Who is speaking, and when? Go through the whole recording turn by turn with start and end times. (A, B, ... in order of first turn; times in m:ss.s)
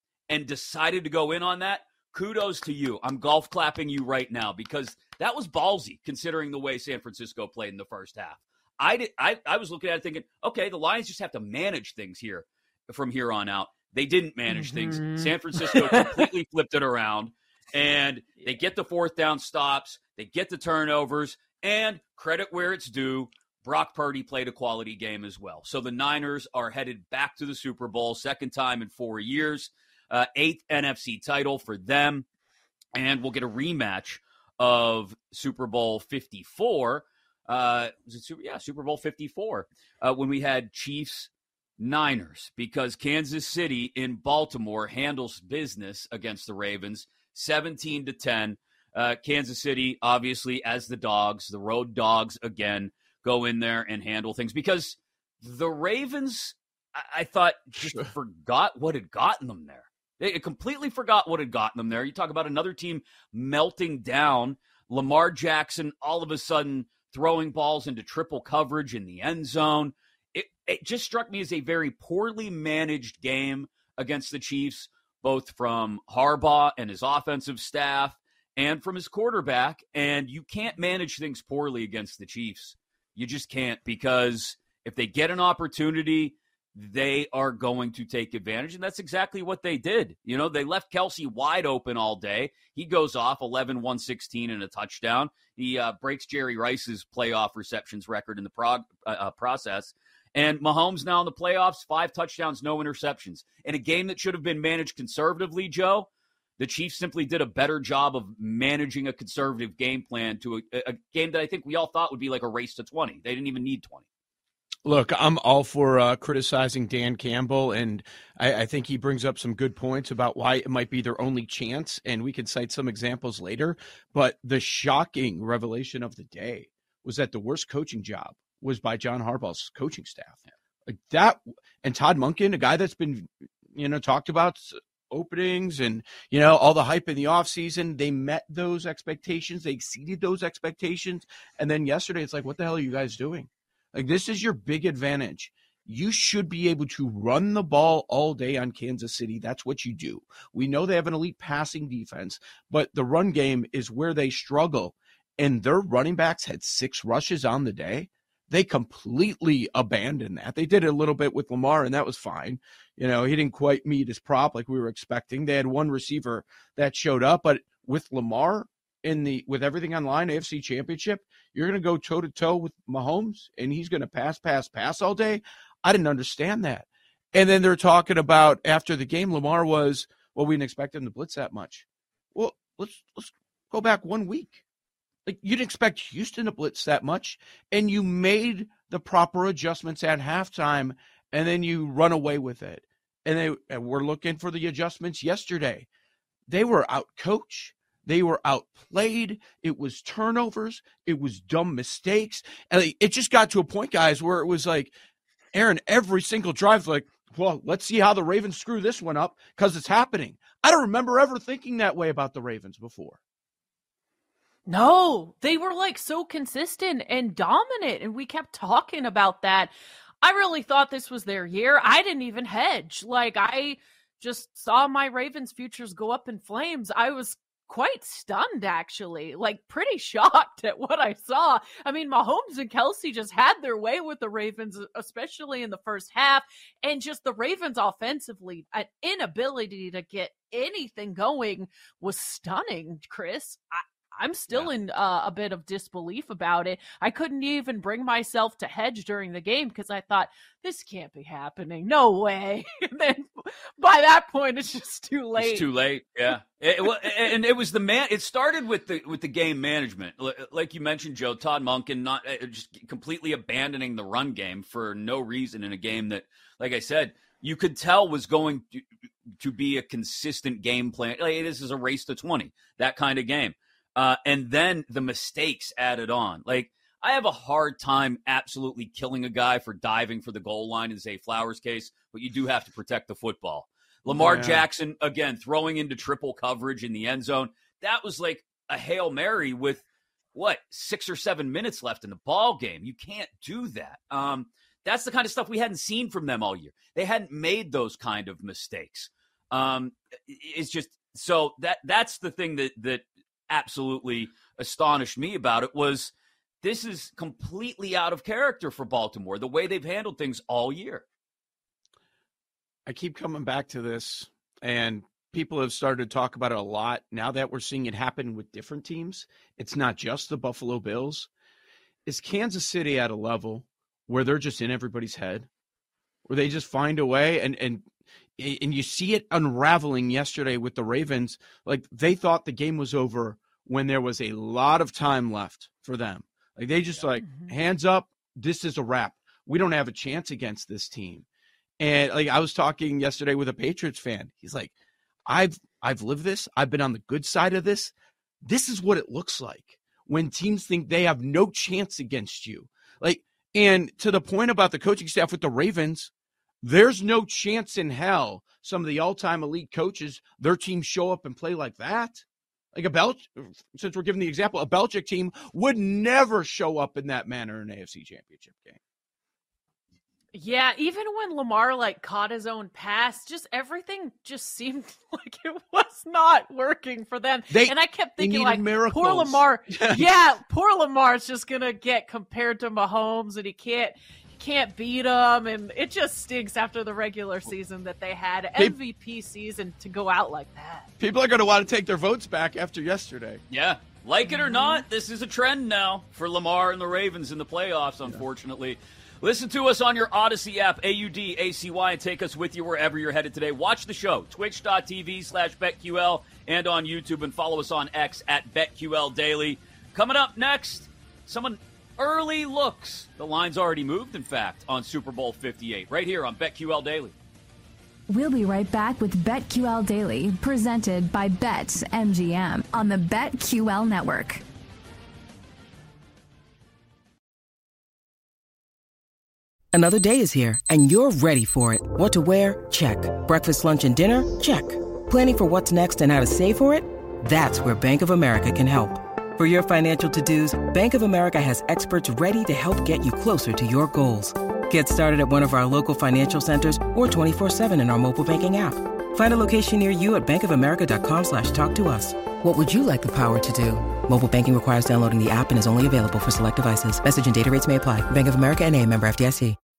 0:00.3-0:32.3 A
0:14.5-0:16.3 B
0:33.0-1:46.1 A
1:46.6-1:54.0 A
1:54.8-3:04.6 C
3:05.3-3:15.9 C
3:16.5-3:24.9 C
3:25.5-3:33.2 C
3:34.7-4:15.7 B
4:15.4-4:28.8 A
4:29.4-4:49.8 A
4:44.1-4:44.6 C
4:50.3-5:11.0 A
5:12.9-5:21.3 C
5:22.1-5:25.5 C
5:26.3-5:27.9 C
5:28.4-5:41.3 C
5:37.2-5:37.5 B
5:41.8-5:44.7 C
5:45.3-5:47.9 C
5:48.4-5:56.1 C
5:56.6-6:08.8 C
6:10.3-6:30.9 B
6:17.5-6:20.1 C
6:31.0-6:33.4 C
6:33.5-6:57.2 A
6:34.2-6:34.8 B
6:58.1-7:04.4 D
7:09.7-7:39.6 E